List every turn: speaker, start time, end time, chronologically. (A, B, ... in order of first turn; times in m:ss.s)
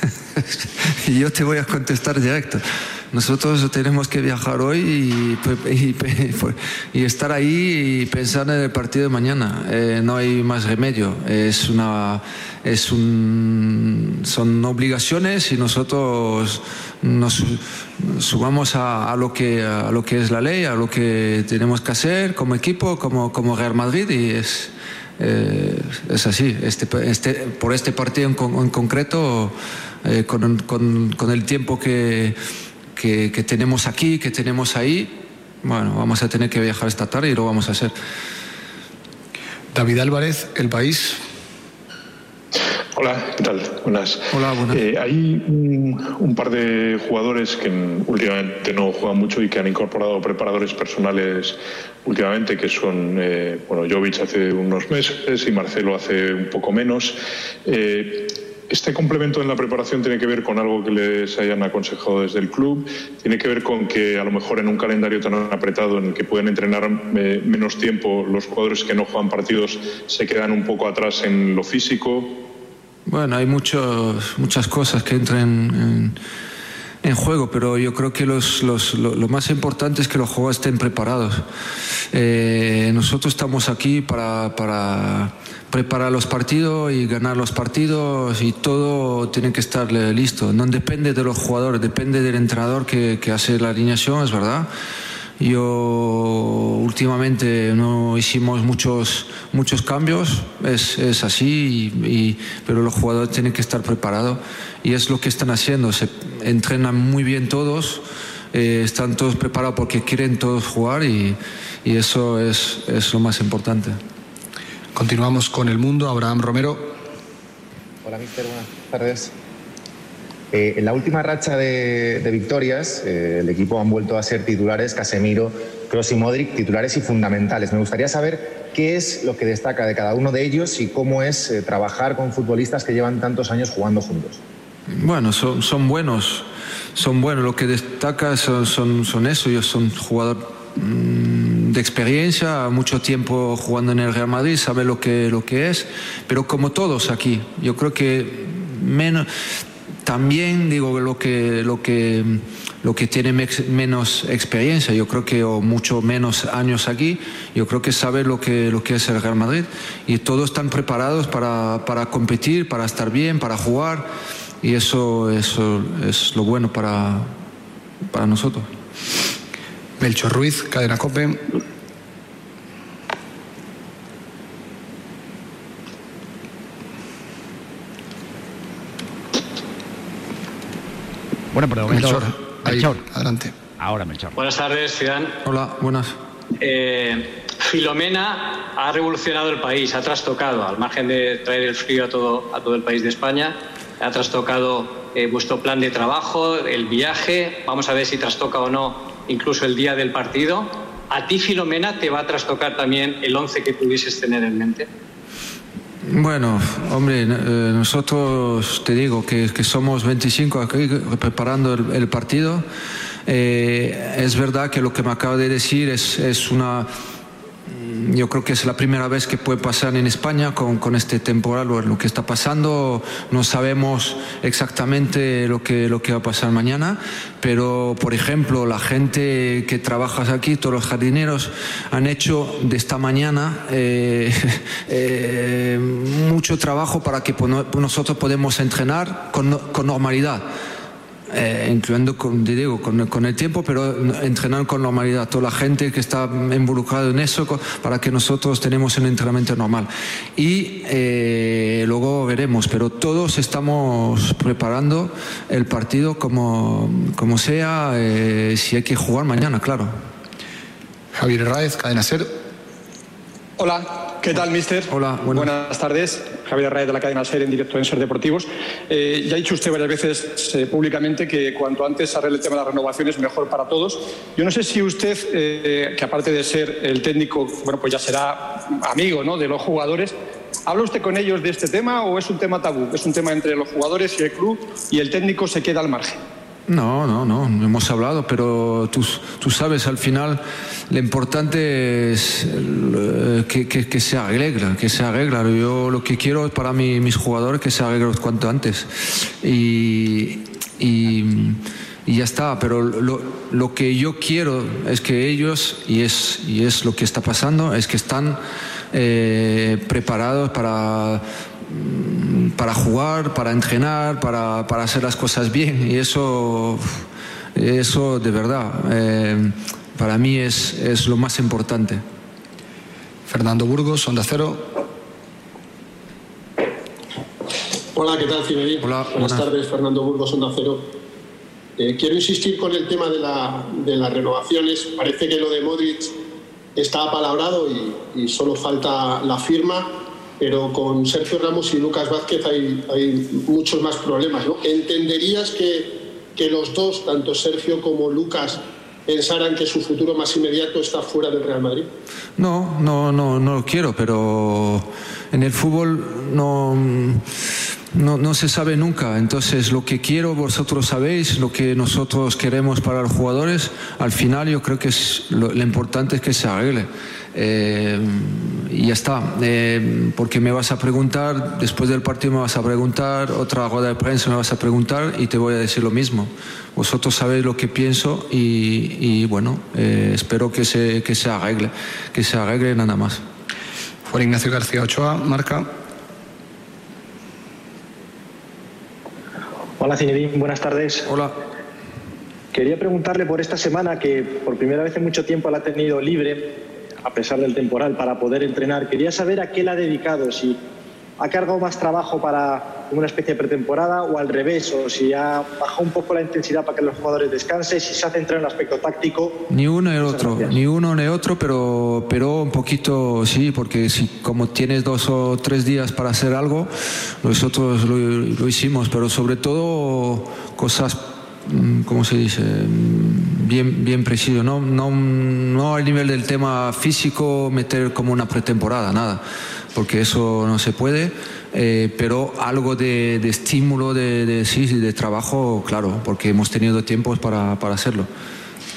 0:00.5-0:32.4 A
0:33.0-0:37.9 A
0:39.7-0:41.2 B
0:43.0-1:12.4 C
0:44.3-0:44.8 A
1:13.1-1:16.2 A
1:17.0-1:21.4 A
1:22.1-1:34.7 A
1:35.4-1:54.0 A
1:55.0-1:56.9 B
1:58.0-1:59.3 D
2:00.5-2:14.4 D
2:14.9-2:29.3 A
2:30.0-2:44.1 A
2:44.6-2:47.3 A
2:48.1-2:48.7 A
2:50.0-2:51.4 B
3:01.5-3:03.0 E
3:01.8-3:03.5 B
3:03.8-3:04.4 E
3:04.4-3:05.3 F
3:05.4-3:06.2 A
3:06.6-3:24.9 F
3:26.0-3:32.6 A
3:33.3-3:36.9 A
3:37.7-4:00.5 A
4:01.3-4:19.9 A
4:21.1-4:22.3 B
4:23.6-4:40.2 G
4:24.9-4:25.5 A
4:40.7-4:46.2 G
4:46.7-5:08.4 A
5:08.9-5:22.0 A
5:23.3-5:24.7 B
5:28.0-5:30.9 H
5:28.8-5:29.5 A
5:31.8-5:36.1 H
5:36.8-5:51.9 H
5:52.4-5:57.2 A
5:57.9-6:23.2 A
6:24.1-6:25.7 B
6:29.8-6:31.0 I
6:31.0-6:31.4 A
6:32.5-6:40.6 I
6:41.2-6:49.4 I
6:49.5-6:56.7 A
6:50.0-6:50.5 I
6:57.2-7:09.2 A
7:09.7-7:18.1 A